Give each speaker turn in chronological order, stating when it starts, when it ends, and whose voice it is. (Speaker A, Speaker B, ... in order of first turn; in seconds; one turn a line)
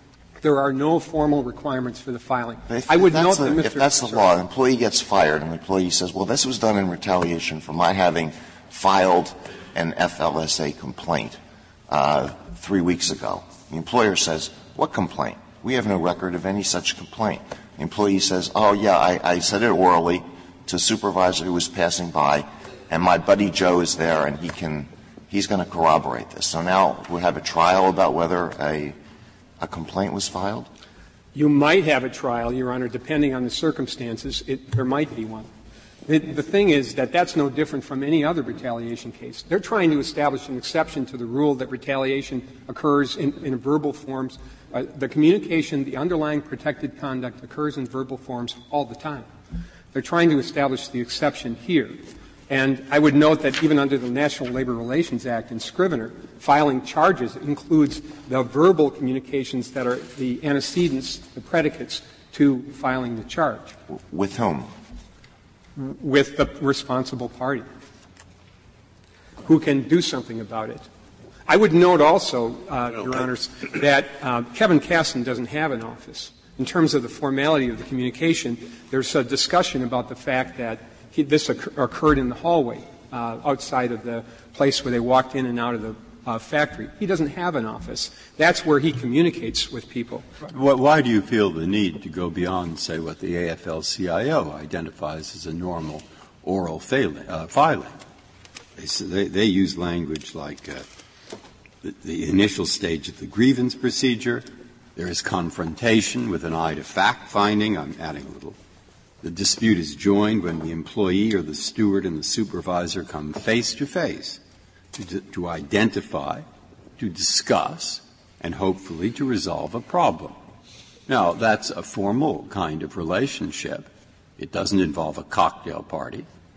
Speaker A: 0.4-4.3
Speaker B: 2.7-29.0
Speaker B: 29.6-30.7
Speaker A: 31.3-35.5
Speaker A: 36.1-49.3
Speaker A: 49.9-52.0
Speaker A: 52.5-63.7
Speaker B: 63.9-64.7
Speaker A: 65.8-67.7
Speaker A: 69.5-70.8
Speaker A: 71.5-90.3
Speaker C: 90.5-98.0
Speaker C: 98.8-100.9
Speaker C: 101.8-108.6
Speaker C: 109.2-114.4
Speaker C: 114.9-116.5
Speaker C: 117.0-120.4
Speaker C: 121.1-126.3